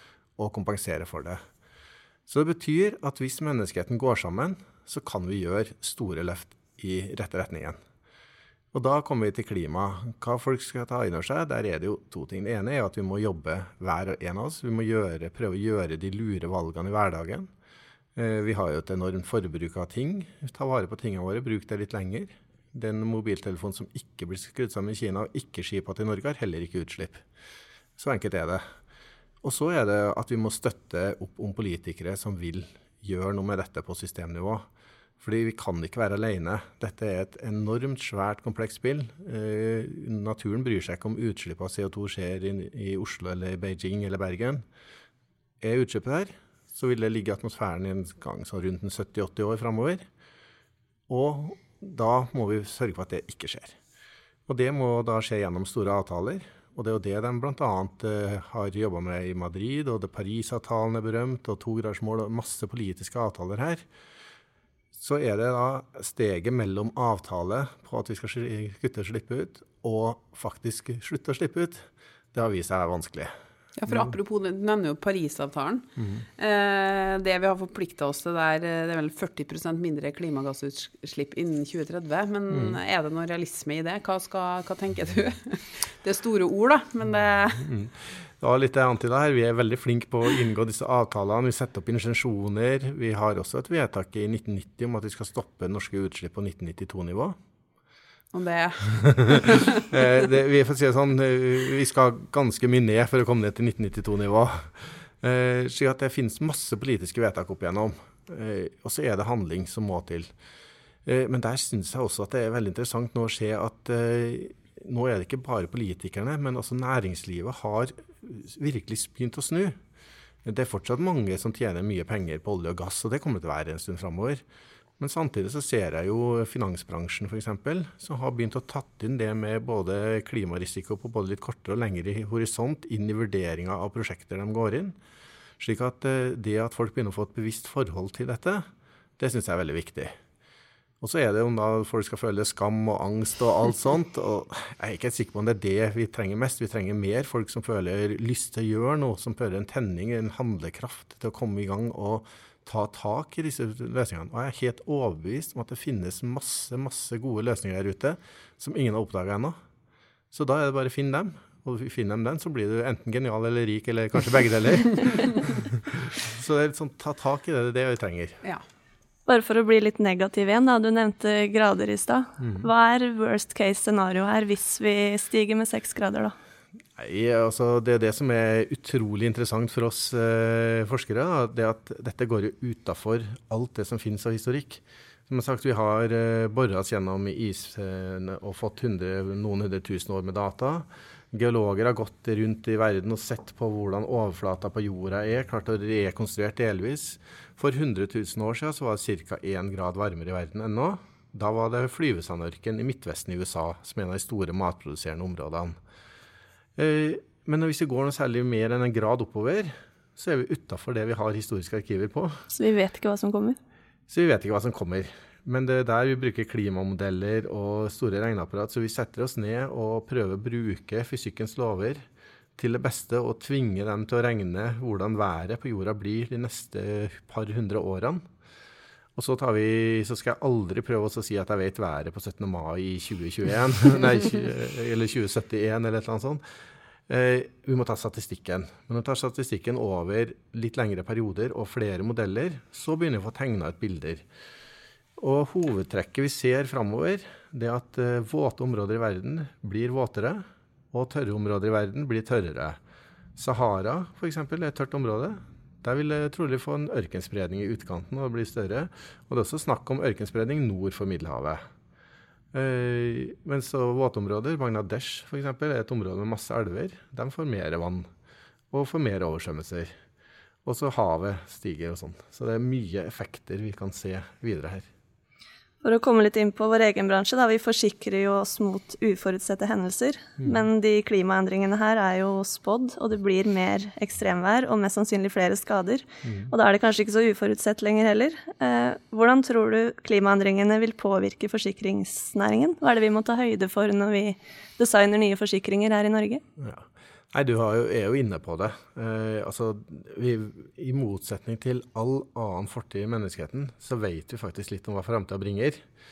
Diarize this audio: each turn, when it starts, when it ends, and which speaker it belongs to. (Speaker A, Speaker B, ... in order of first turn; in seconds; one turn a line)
Speaker A: 0.4-1.4
Speaker A: 2.3-7.8
Speaker A: 8.7-17.5
Speaker A: 18.1-27.2
Speaker A: 28.0-28.6
Speaker A: 29.4-34.7
Speaker A: 35.2-44.6
Speaker A: 45.6-50.0
Speaker A: 51.1-53.8
Speaker A: 54.5-63.8
Speaker A: 64.9-73.3
Speaker B: 73.8-75.8
Speaker A: 73.9-74.1
Speaker A: 76.0-76.2
Speaker B: 76.4-87.6
Speaker A: 82.5-82.8
Speaker A: 87.6-97.4
Speaker B: 98.3-100.0
Speaker A: 99.3-110.3
Speaker A: 111.0-119.8
Speaker A: 120.4-124.4
Speaker A: 125.0-134.9
Speaker A: 135.6-138.7
Speaker A: 139.2-140.1
Speaker A: 141.0-159.6
Speaker A: 160.3-168.4
Speaker C: 169.3-176.3
Speaker A: 172.4-172.7
Speaker A: 177.0-205.8
Speaker A: 206.8-212.4
Speaker C: 212.5-213.6
Speaker A: 214.1-222.0
Speaker A: 222.6-228.2
Speaker A: 229.2-236.4
Speaker A: 237.1-244.2
Speaker A: 245.2-252.8
Speaker A: 253.4-261.6
Speaker A: 262.5-268.1
Speaker A: 268.7-269.9
Speaker A: 270.6-274.9
Speaker C: 275.8-296.4
Speaker A: 286.2-286.5
Speaker A: 296.6-305.8